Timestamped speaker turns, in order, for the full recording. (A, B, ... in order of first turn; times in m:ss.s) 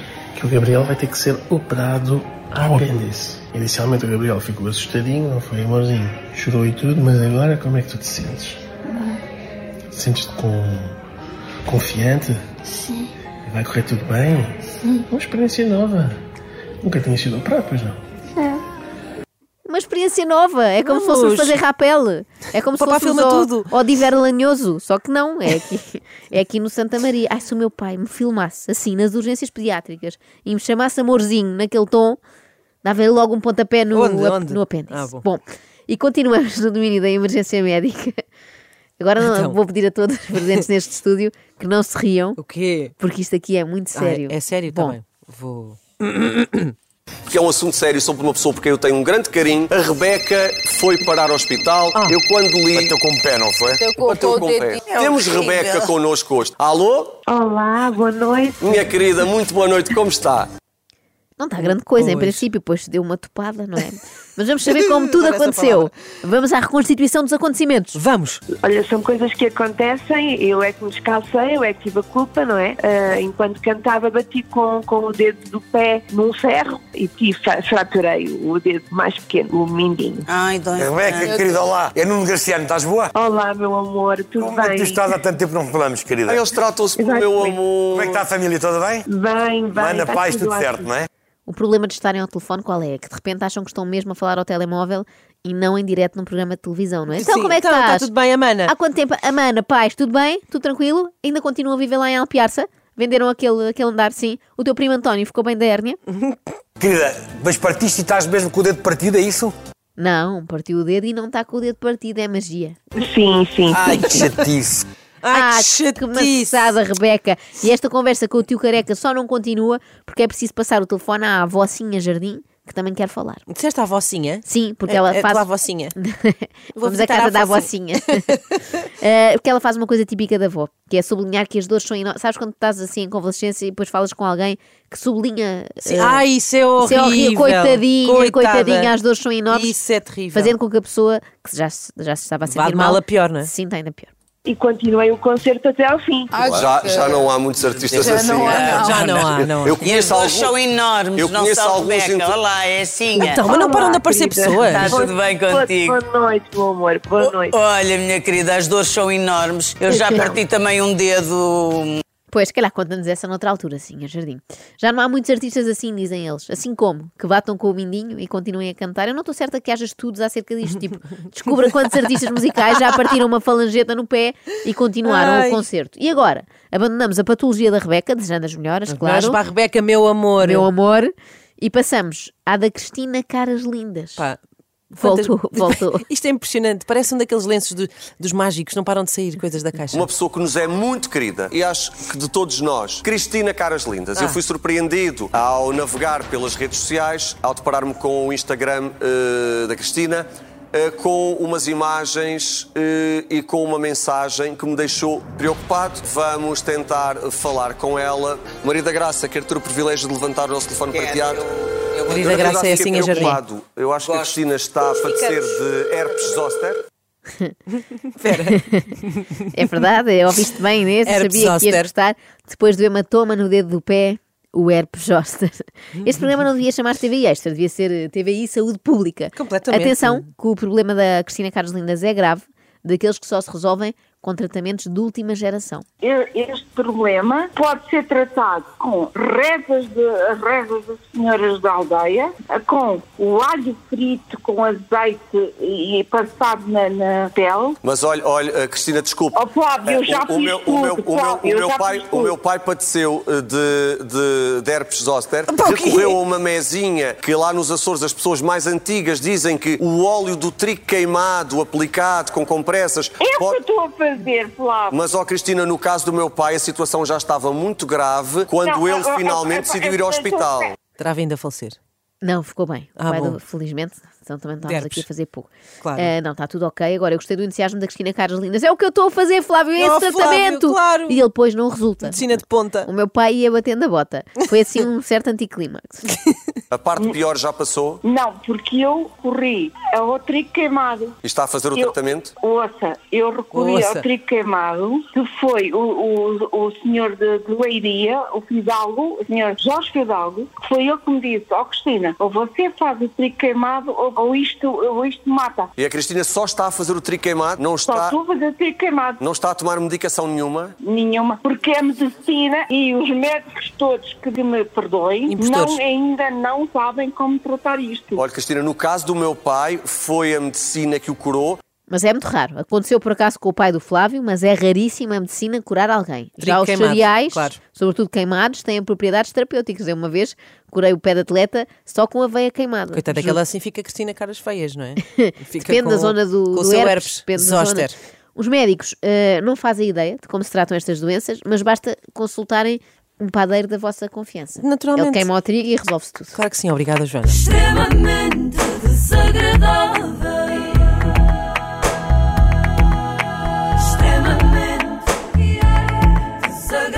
0:00.4-0:08.6 A
0:09.9-0:10.9 A
0:11.6-0:12.4 A
0:13.5-0:16.2 A
0:16.8-0:18.0 A
0:19.6-0:32.2 B
0:20.8-0:21.6 C
0:22.7-0:23.7 C
0:32.8-0:38.2 B
0:33.9-0:35.2 C
0:39.0-0:42.4 B
0:39.2-0:39.6 C
0:42.4-0:42.9 C
0:43.0-0:45.0 B
0:43.9-0:46.7 C
0:47.3-0:53.0 D
0:52.7-0:53.8 E
0:53.9-0:57.2 D
0:54.7-0:55.9 F
0:57.3-0:59.2 G
0:58.6-1:00.5 D
1:01.4-1:08.0 B
1:01.6-1:02.4 C
1:04.9-1:06.0 C
1:07.9-1:08.4 C
1:08.6-1:20.2 G
1:20.2-1:21.4 F
1:20.8-1:23.1 E
1:23.1-1:25.2 G
1:24.4-1:26.4 E
1:26.2-1:28.3 D
1:26.9-1:27.8 G
1:27.9-1:29.0 E
1:29.0-1:31.0 G
1:29.8-1:31.1 E
1:31.5-1:38.1 B
1:37.1-1:38.7 C
1:38.6-1:46.0 B
1:46.8-1:49.5 E
1:50.0-1:52.8 B
1:53.0-1:54.3 G
1:53.7-1:54.8 E
1:55.2-1:56.7 C
1:55.3-2:03.4 B
2:03.5-2:05.9 C
2:04.4-2:16.2 B
2:06.8-2:07.7 C
2:15.9-2:19.0 C
2:16.8-2:19.8 B
2:19.5-2:20.5 C
2:20.3-2:24.1 B
2:22.5-2:23.5 C
2:24.4-2:26.3 G
2:26.4-2:30.6 D
2:27.8-2:33.4 F
2:28.7-2:29.8 C
2:31.1-2:32.4 D
2:33.1-2:35.0 C
2:33.4-2:37.5 G
2:34.6-2:36.0 F
2:37.2-2:42.0 F
2:42.3-2:59.4 B
2:55.0-2:55.6 C
2:58.9-3:00.7 C
3:00.4-3:04.2 B
3:04.9-3:10.1 C
3:05.0-3:06.0 B
3:09.9-3:31.4 D
3:14.1-3:14.4 C
3:30.8-3:32.2 F
3:32.1-3:33.4 C
3:32.1-3:36.8 D
3:34.0-3:34.4 F
3:35.0-3:35.4 F
3:38.0-3:39.4 C
3:38.5-3:38.8 B
3:39.5-3:55.8 B
3:41.0-3:41.9 C
3:49.3-3:50.2 C
3:56.0-4:07.8 H
4:07.8-4:23.6 D
4:09.3-4:12.3 H
4:15.5-4:16.2 C
4:23.2-4:25.0 H
4:24.9-4:30.7 D
4:28.5-4:30.7 H
4:31.0-4:31.8 C
4:32.2-4:46.1 B
4:33.0-4:33.4 C
4:34.6-4:35.0 C
4:35.8-4:36.1 C
4:39.8-4:41.2 C
4:42.0-4:42.9 C
4:46.7-4:48.0 D
4:48.0-4:51.1 H
4:51.2-4:52.3 D
4:51.7-5:05.7 H
4:53.5-4:54.1 C
5:05.8-5:08.2 D
5:07.9-5:09.2 H
5:09.2-5:10.7 D
5:10.8-5:18.2 H
5:15.3-5:15.8 C
5:18.1-5:21.6 D
5:21.9-5:33.4 B
5:26.4-5:27.6 C
5:32.9-5:38.0 C
5:35.1-5:46.4 B
5:44.6-5:45.3 C
5:46.3-5:47.5 C